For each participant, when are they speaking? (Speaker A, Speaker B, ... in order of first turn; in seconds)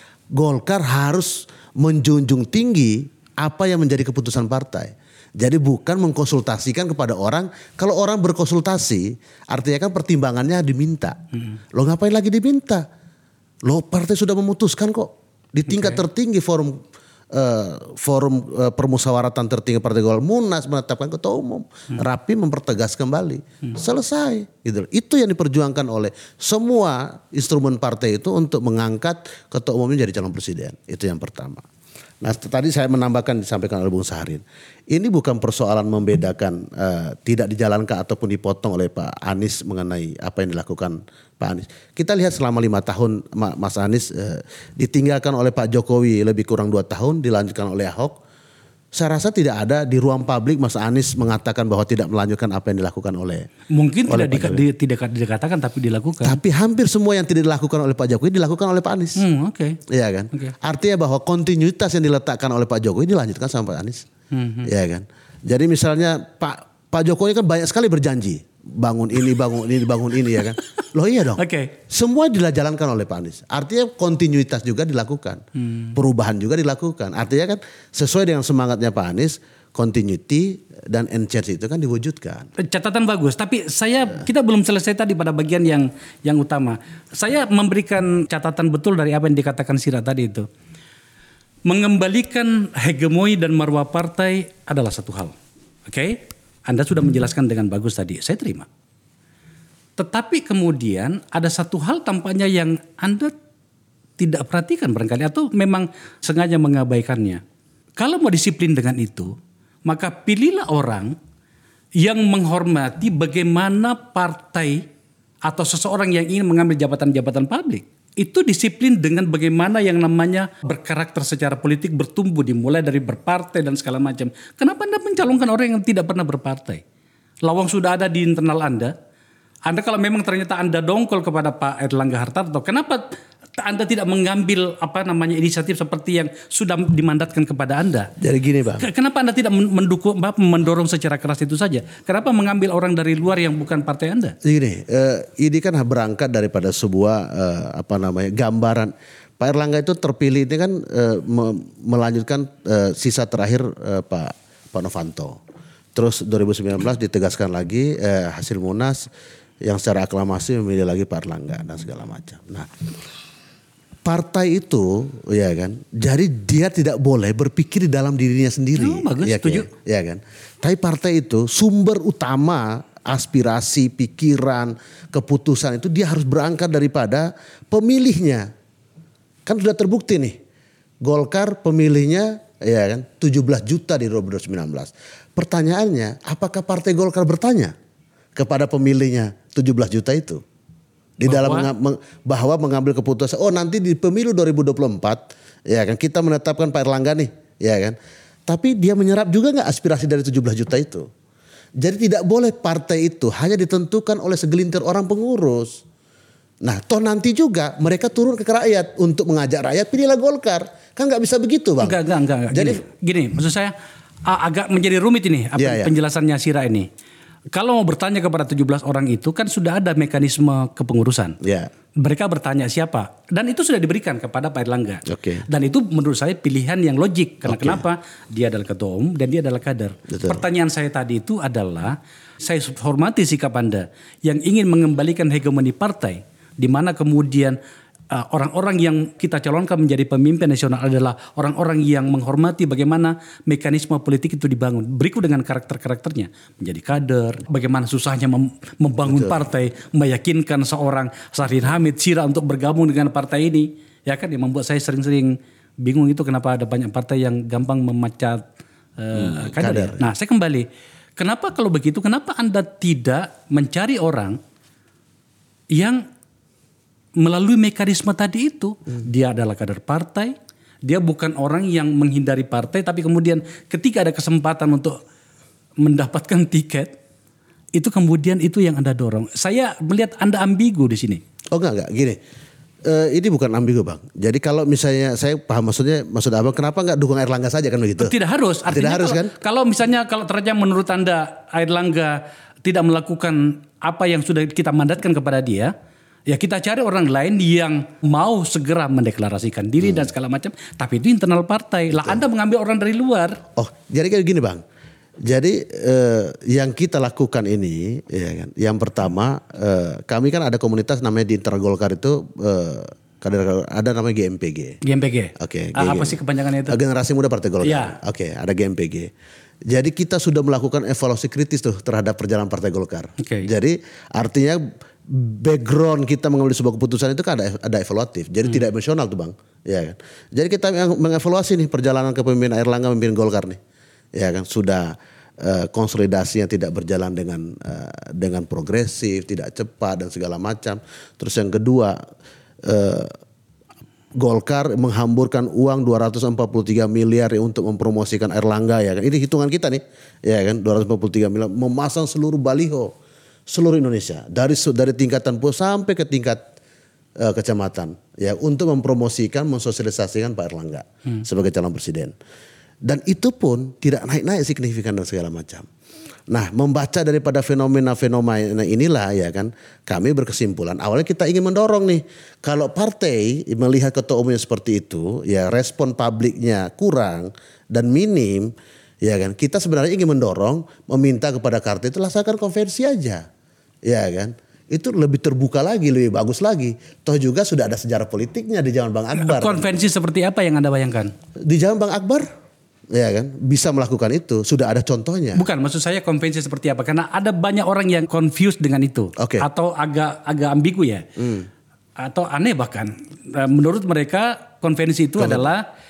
Speaker A: 0.3-11.2, 11.7-12.9, 13.7-16.8, 17.3-31.6, 32.2-48.2, 48.9-53.5, 54.1-54.6, 56.2-59.2, 59.9-64.1, 64.7-75.4, 76.0-82.5, 138.2-138.9, 144.4-155.4, 155.9-159.1, 159.6-162.7, 164.1-178.5, 179.5-180.4, 181.0-187.7, 188.4-190.4, 191.2-198.0, 198.5-201.1, 201.8-205.8, 206.6-212.0, 212.5-212.8, 215.6-215.9, 221.4-221.7, 225.1-225.4, 227.4-227.8, 230.1-230.4, 249.1-249.4, 259.5-260.0, 281.5-282.2, 282.9-288.1, 288.7-289.3, 303.6-304.6, 305.3-314.8, 315.4-319.1, 319.7-333.6, 334.2-342.0, 342.6-343.2, 344.2-352.9, 353.5-356.4, 357.2-362.1, 362.8-365.7, 366.3-383.3, 383.9-389.8, 391.5-392.3, 392.9-395.4, 399.2-399.5, 401.2-401.5, 405.2-405.5
Speaker B: 53.7-56.4, 59.2-59.8, 64.3-64.7, 71.4-71.7, 75.6-76.0, 82.6-90.5, 91.7-95.3, 95.9-98.7, 100.0-103.3, 104.2-107.4, 108.0-109.3, 109.9-111.2, 112.0-114.8, 115.5-126.8, 127.5-128.9, 129.7-138.1, 138.8-144.4, 168.8-169.7, 191.3-191.7, 211.8-213.7, 214.3-216.9, 217.5-221.4, 222.0-237.6, 238.1-258.4, 259.0-260.7, 261.2-264.4, 265.7-266.1, 267.2-270.3, 270.9-275.0, 275.8-276.9, 277.8-281.2, 288.0-295.7, 296.3-303.4, 314.8-316.8, 317.6-317.9, 323.2-323.5, 389.1-391.1, 395.4-401.1, 402.0-405.6